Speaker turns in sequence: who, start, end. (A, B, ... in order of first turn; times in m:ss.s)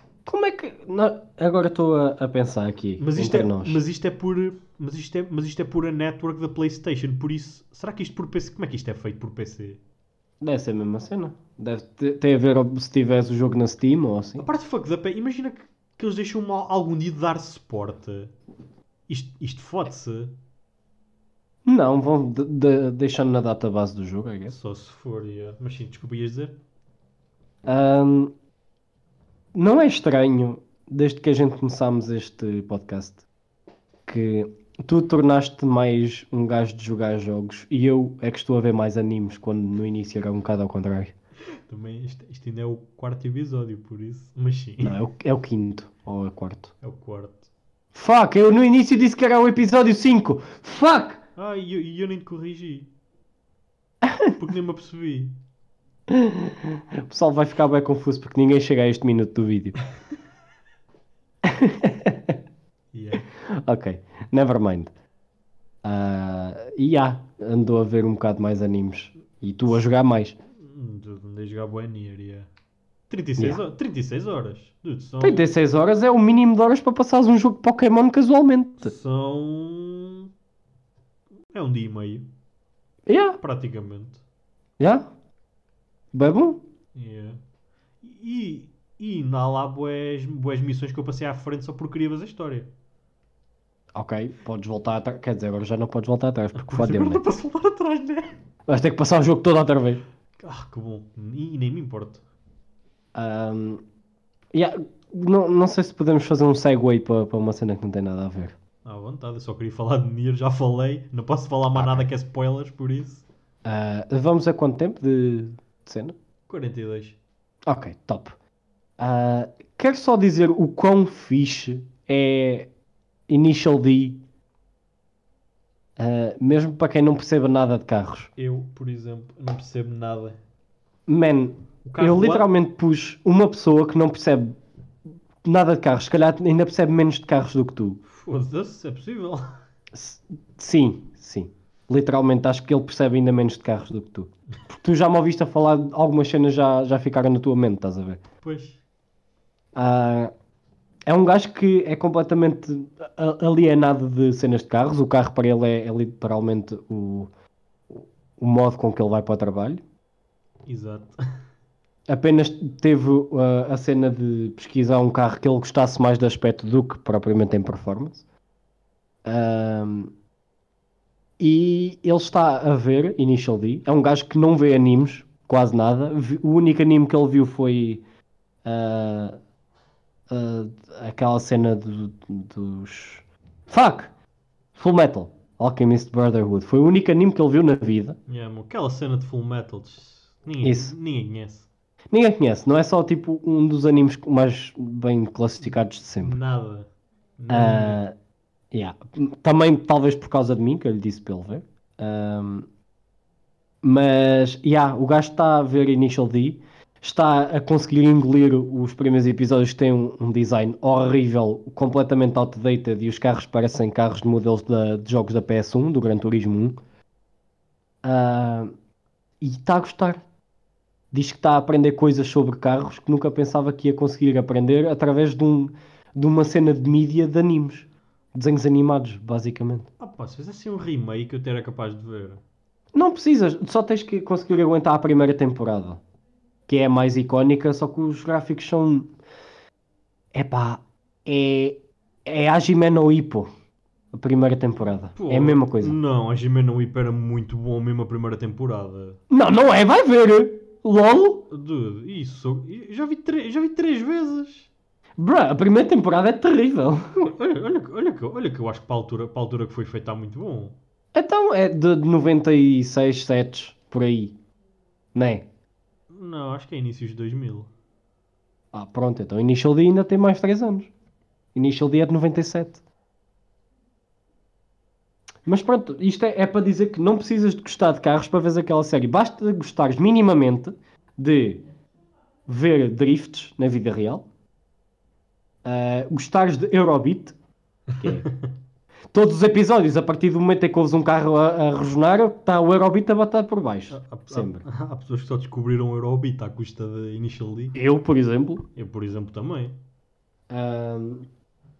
0:00.3-0:03.8 A
0:03.0-0:09.8 B
0:10.4-0:14.5 A
0:14.4-0:18.3 B
0:19.1-0:20.4 B
0:21.6-0:24.6 A
0:24.5-0:26.6 B
0:27.7-0:28.3 A
0:29.6-0:33.2 A
0:34.1-0:41.1 A
0:41.7-0:45.0 B
0:44.8-0:46.7 A
0:46.8-0:47.5 B
0:47.9-0:51.2 A
0:51.4-0:52.9 B
0:54.0-0:54.4 A
0:54.4-0:55.4 B
0:56.1-0:59.8 A
1:01.4-1:02.4 A
1:02.9-1:03.2 B
1:03.4-1:04.9 A
1:05.8-1:10.4 A
1:10.6-1:12.5 B
1:13.1-1:15.5 B
1:15.2-1:18.9 A
1:18.8-1:20.3 B
1:21.5-1:22.3 B
1:23.1-1:23.4 A
1:23.4-1:24.2 B
1:24.8-1:25.1 A
1:26.1-1:26.6 A
1:27.0-1:27.4 B
1:28.0-1:32.7 B
1:34.0-1:37.2 A
1:36.5-1:38.3 B
1:38.7-1:40.0 A
1:40.4-1:42.2 B
1:43.2-1:43.8 A
1:44.5-1:48.6 A
1:48.8-1:53.2 B
1:51.7-1:52.1 A
1:53.6-1:56.2 A
1:56.5-1:57.2 B
1:57.7-1:58.4 A
1:59.0-2:02.7 A
2:03.3-2:04.2 A
2:06.0-2:08.3 A
2:08.4-2:10.4 B
2:11.1-2:14.6 A
2:11.8-2:12.5 B
2:15.4-2:18.0 A
2:18.1-2:19.4 B
2:19.9-2:28.2 A
2:28.4-2:28.8 B
2:29.8-2:30.3 A
2:31.1-2:37.3 A
2:37.9-2:39.8 A
2:40.7-2:41.2 B
2:42.1-2:48.2 A
2:49.2-2:50.1 A
2:51.4-2:58.0 A
2:58.6-2:59.4 A
3:00.3-3:04.1 A
3:04.8-3:08.2 A
3:08.3-3:11.7 B
3:10.6-3:10.9 A
3:12.1-3:16.4 A
3:16.2-3:16.9 B
3:17.4-3:18.0 B
3:17.5-3:18.1 A
3:18.7-3:22.7 A
3:23.8-3:36.8 A
3:38.0-3:38.7 A
3:39.4-3:40.2 A
3:41.1-3:49.9 A
3:50.0-3:52.4 B
3:53.0-3:56.0 A
3:56.7-3:59.1 A
4:00.3-4:03.5 A
4:04.1-4:06.0 A
4:05.2-4:09.2 B
4:09.3-4:11.5 A
4:11.5-4:14.7 B
4:15.2-4:17.3 A
4:17.2-4:20.8 B
4:21.1-4:24.4 A
4:25.2-4:25.5 A
4:26.1-4:27.7 B
4:28.7-4:30.9 A
4:31.6-4:32.8 A
4:35.4-4:41.6 A
4:42.5-4:44.2 A
4:45.6-4:47.4 A
4:48.0-4:48.3 A
4:48.0-4:48.5 B
4:49.1-4:54.6 A
4:53.9-4:57.8 B
4:57.8-4:58.6 A
4:58.8-4:59.8 B
5:00.5-5:01.3 A